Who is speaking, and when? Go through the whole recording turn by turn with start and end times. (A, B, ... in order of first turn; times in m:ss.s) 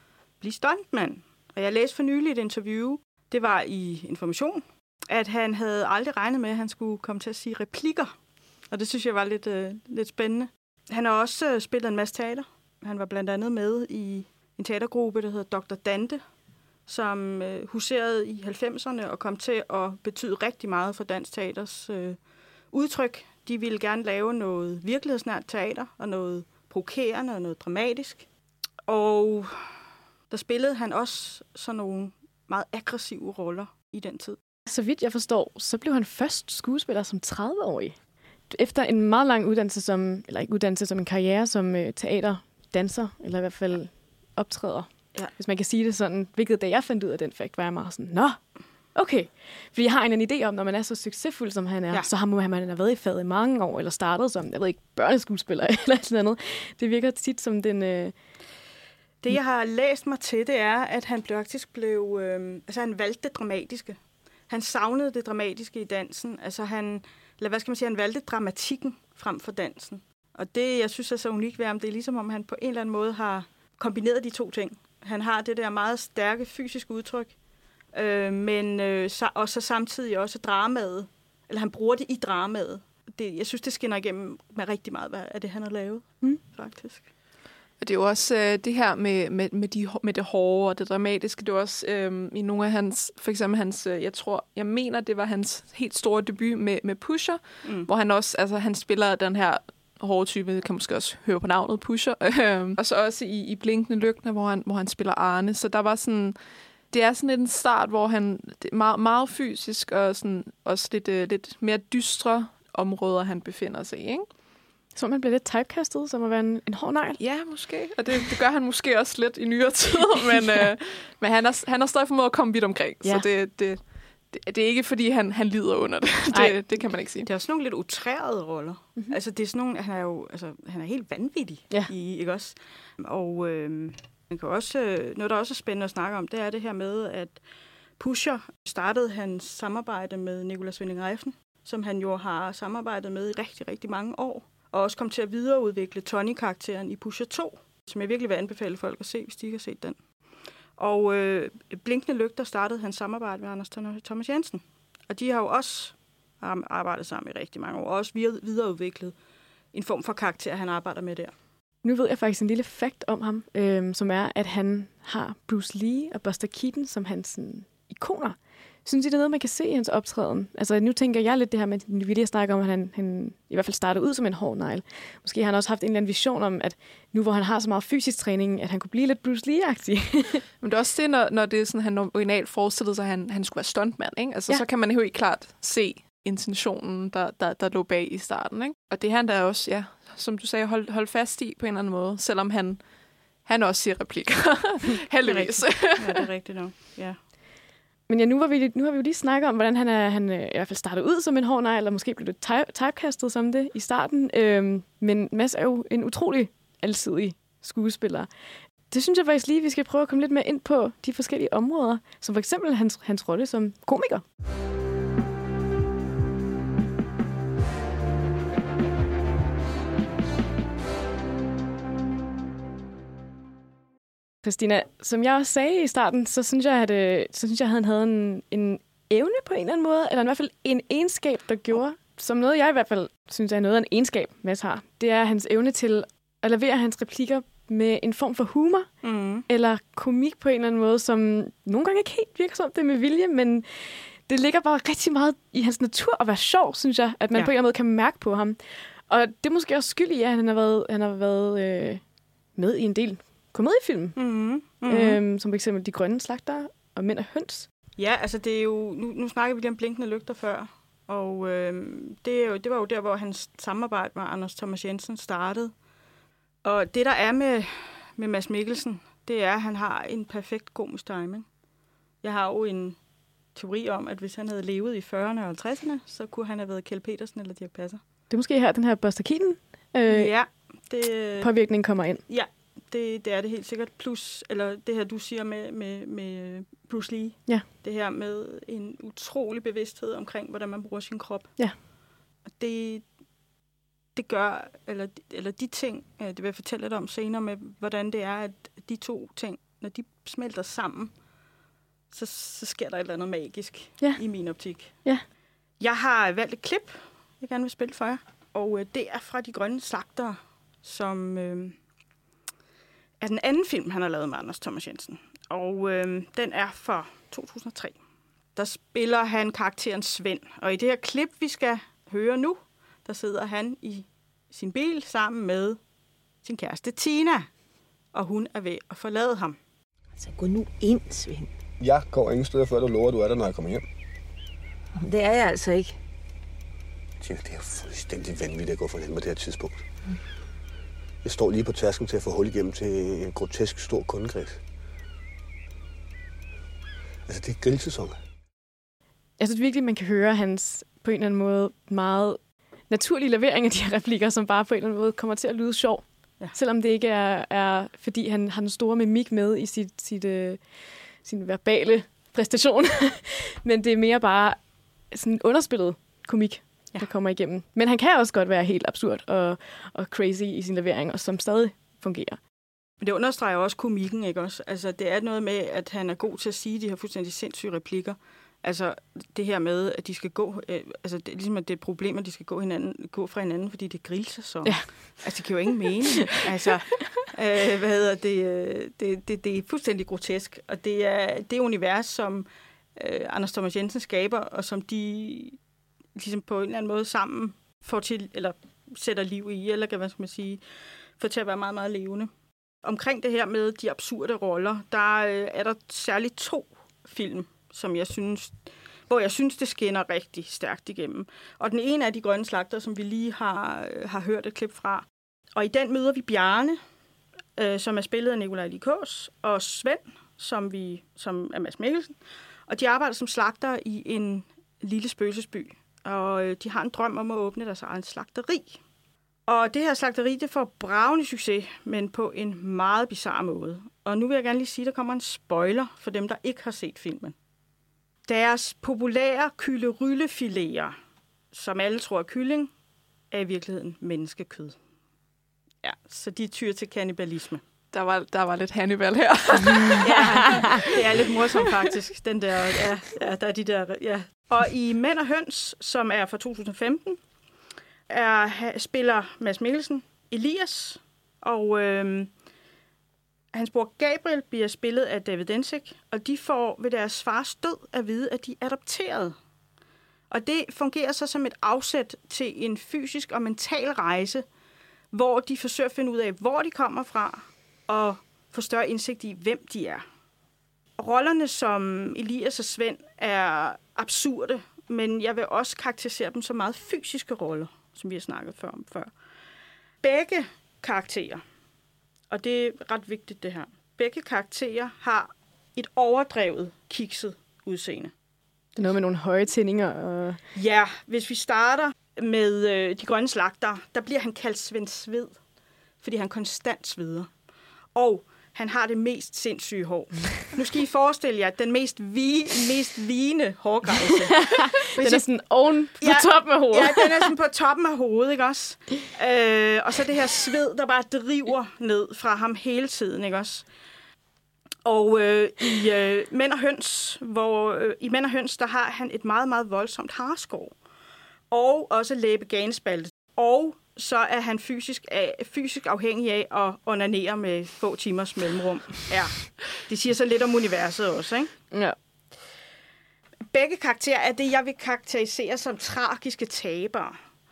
0:00.4-0:08.1 A
0:08.7-0:16.2 A
0:16.9-0:22.2 A
0:22.7-0:28.2 A
0:28.9-0:29.6 A
0:30.3-0:34.4 A
0:34.7-0:38.0 B
0:38.5-0:58.1 B
0:59.2-1:04.0 A
1:04.5-1:17.3 A
1:17.9-1:27.0 A
1:27.8-1:46.4 C
1:37.6-1:37.9 A
1:46.9-1:54.2 C
1:54.9-1:57.2 B
1:57.2-2:07.3 C
2:00.3-2:00.7 B
2:06.3-2:06.6 B
2:07.2-2:17.4 A
2:18.0-2:30.0 A
2:30.8-2:39.1 A
2:39.7-2:41.3 A
2:41.8-3:00.4 B
3:00.6-3:12.8 C
3:13.4-3:16.2 C
3:15.2-3:17.2 A
3:18.1-3:28.3 B
3:28.9-3:34.2 B
3:44.4-3:58.9 B
3:59.0-3:59.4 A
3:59.5-4:12.0 B
4:12.6-4:14.2 B
4:14.2-4:15.2 A
4:14.9-4:17.7 B
4:18.0-4:25.7 A
4:26.6-4:31.4 A
4:32.2-4:33.0 A
4:33.5-4:38.0 A
4:38.3-4:40.3 B
4:40.1-4:41.5 A
4:41.4-4:42.2 B
4:42.3-4:51.6 A
4:52.5-4:53.0 A
4:54.1-5:01.1 A
5:02.1-5:05.1 A
5:05.8-5:11.8 A
5:13.2-5:18.0 A
5:18.5-5:25.8 A
5:26.4-5:27.5 A
5:28.1-5:29.6 A
5:30.2-5:31.5 D
5:31.8-5:33.8 E
5:35.0-5:36.0 D
5:37.2-5:39.8 E
5:41.2-5:44.6 E
5:47.3-5:48.2 E
5:49.4-6:12.4 B
6:13.0-6:35.6 A
6:24.6-6:25.2 B
6:36.1-6:40.6 A
6:41.2-6:42.3 A
6:42.8-6:56.8 A
6:57.6-7:02.2 A
7:02.7-7:08.8 A
7:09.5-7:17.3 A
7:18.3-7:21.0 A
7:21.5-7:22.7 A
7:23.3-7:24.8 A
7:25.8-7:27.6 A
7:27.9-7:31.7 C
7:30.0-7:37.2 A
7:38.1-7:42.3 A
7:43.5-7:49.4 A
7:50.3-7:54.4 A
7:55.1-8:00.0 A
8:01.0-8:09.1 A
8:10.0-8:11.4 A
8:12.3-8:18.1 A
8:18.8-8:20.4 B
8:20.5-8:25.4 A
8:26.0-8:27.3 A
8:27.9-8:35.2 A
8:34.4-8:37.3 B
8:36.0-8:43.6 A
8:44.8-8:50.7 A
8:51.5-9:01.5 A
9:03.5-9:07.2 A